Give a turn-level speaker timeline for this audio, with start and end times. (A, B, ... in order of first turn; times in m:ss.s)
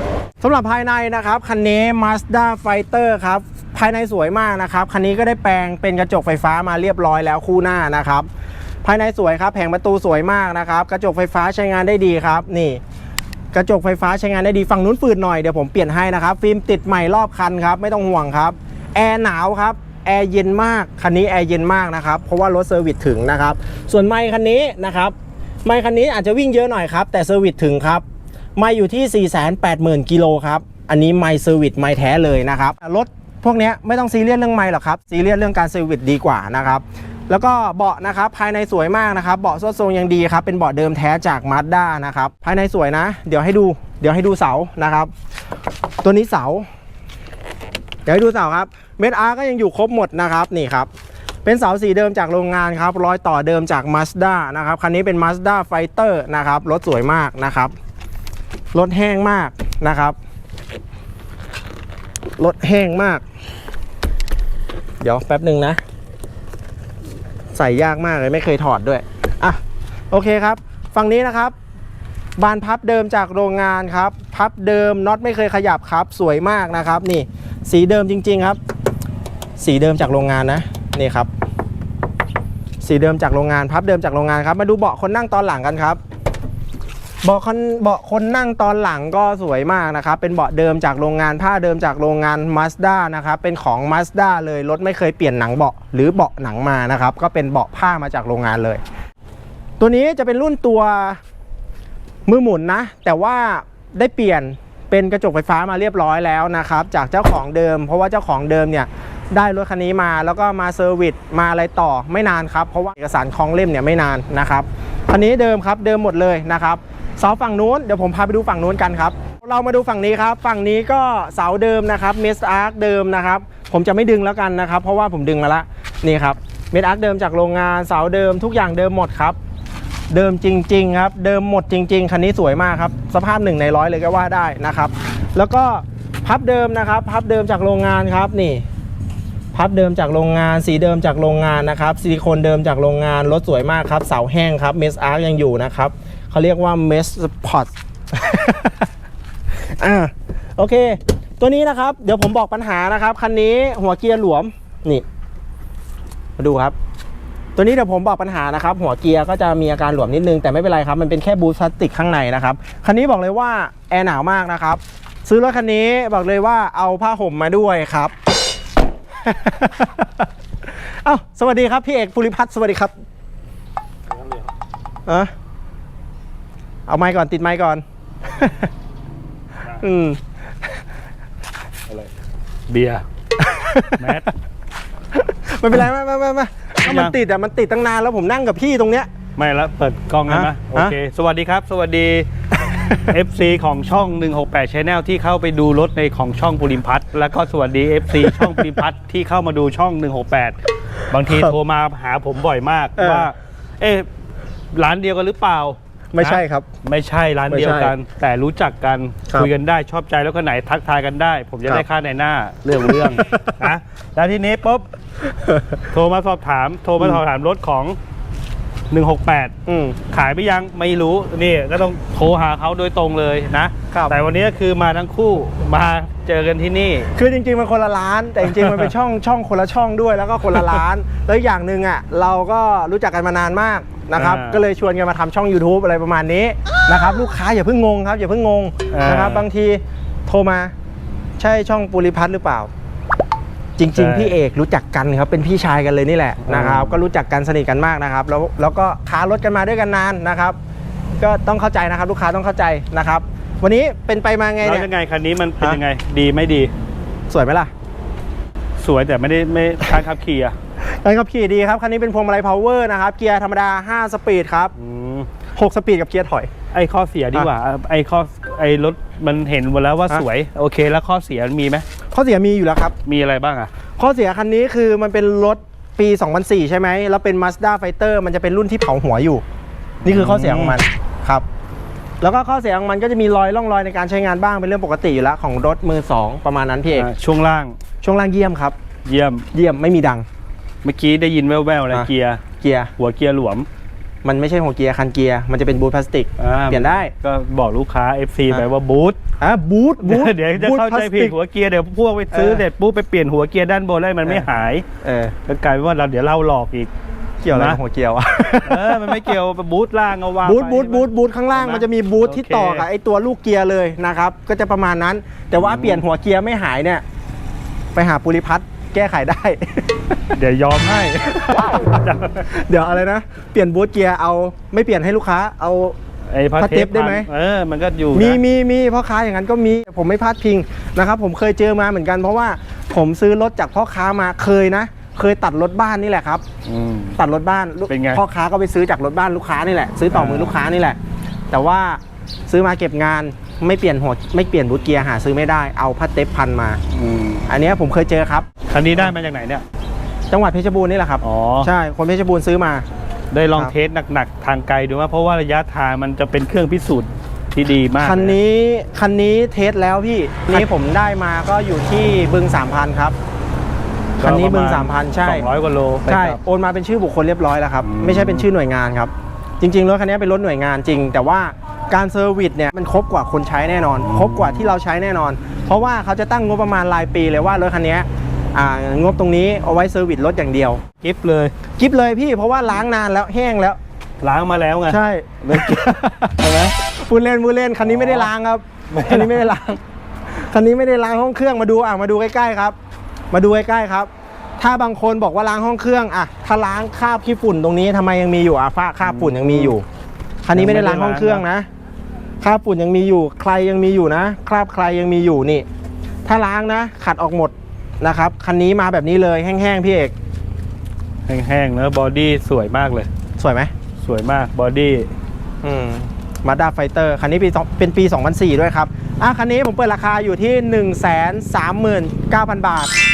0:00.4-0:08.3 A
0:08.8-0:12.8 A
0:13.5-0:28.0 A
0:28.6-0:45.1 A
0:46.0-0:46.6 A
0:48.0-0:50.9 A
0:51.4-0:57.7 A
0:58.7-1:00.2 A
1:02.4-1:03.2 A
1:05.0-1:05.8 A
1:07.5-1:09.6 A
1:10.1-1:11.5 A
1:12.4-1:18.6 A
1:19.6-1:21.3 A
1:22.8-1:26.0 A
1:27.2-1:38.8 A
1:39.8-1:41.2 A
1:42.3-2:09.4 A
2:10.1-2:18.6 A
2:19.5-2:28.9 A
2:29.8-2:35.0 A
2:36.4-2:36.7 A
2:37.6-2:48.1 A
2:49.2-2:50.3 A
2:50.8-2:52.9 A
2:55.1-2:55.3 A
2:56.9-2:58.7 A
2:59.6-3:00.2 A
3:02.7-3:03.0 B
3:03.4-3:04.3 A
3:04.0-3:04.3 B
3:05.1-3:09.1 A
3:06.8-3:07.1 B
3:09.4-3:12.3 B
3:10.3-3:11.0 A
3:12.8-3:20.6 B
3:18.2-3:18.7 A
3:21.1-3:24.1 B
3:23.0-3:23.3 A
3:24.7-3:34.9 B
3:26.1-3:26.7 A
3:27.5-3:27.9 A
3:33.2-3:33.6 A
3:35.3-3:35.8 A
3:35.9-3:38.0 B
3:38.9-3:39.5 B
3:39.6-3:40.0 A
3:40.1-3:47.1 B
3:47.1-4:00.7 A
3:48.4-3:48.9 B
3:54.1-3:54.6 B
3:58.9-3:59.5 B
4:01.4-4:02.7 A
4:03.8-4:10.6 A
4:03.9-4:04.4 B
4:06.4-4:07.0 B
4:11.2-4:14.9 A
4:14.6-4:16.7 B
4:17.3-4:17.7 A
4:18.8-4:20.6 B
4:20.8-4:24.7 A
4:24.8-4:25.3 B
4:25.6-4:26.5 A
4:26.7-4:31.8 B
4:32.1-4:33.0 A
4:33.0-4:33.7 B
4:34.0-4:39.4 A
4:40.0-4:40.8 B
4:40.0-4:41.4 A
4:42.2-4:47.1 A
4:46.9-4:47.8 B
4:48.0-4:48.8 A
4:49.0-4:49.5 B
4:49.5-4:50.2 A
4:50.8-4:52.4 B
4:52.6-4:52.9 A
4:53.0-4:53.7 B
4:54.2-4:57.1 A
4:56.4-4:59.2 B
4:59.4-5:01.3 A
5:00.0-5:04.8 B
5:02.3-5:02.6 A
5:05.0-5:05.3 A
5:05.5-5:06.9 B
5:07.4-5:09.3 A
5:07.5-5:07.8 B
5:08.6-5:12.9 B
5:10.4-5:17.0 A
5:15.6-5:16.0 B
5:17.9-5:20.3 A
5:20.3-5:22.5 B
5:21.4-5:21.8 A
5:22.5-5:26.0 A
5:26.3-5:28.4 B
5:26.6-5:27.3 A
5:28.1-5:36.4 A
5:36.6-5:37.2 B
5:37.2-5:41.0 A
5:37.9-5:38.2 B
5:40.1-5:40.6 B
5:41.5-5:46.8 A
5:46.9-5:47.4 B
5:47.5-5:49.1 A
5:48.7-5:49.6 B
5:50.3-5:52.8 A
5:51.2-5:51.7 B
5:53.3-5:58.4 B
5:58.0-6:03.1 A
6:04.2-6:06.4 B
6:04.2-6:05.4 A
6:06.1-6:20.8 A
6:07.8-6:08.4 B
6:14.0-6:14.7 B
6:21.0-6:21.5 B
6:21.8-6:23.8 A
6:24.2-6:26.7 B
6:24.9-6:32.8 A
6:27.8-6:28.3 B
6:28.9-6:29.5 B
6:33.3-6:39.8 A
6:39.0-6:39.7 B
6:40.4-6:41.7 A
6:40.5-6:41.4 B
6:42.4-6:45.6 A
6:46.2-6:50.1 A
6:51.3-6:53.1 B
6:53.4-6:53.7 A
6:54.0-6:55.1 B
6:55.6-7:02.9 A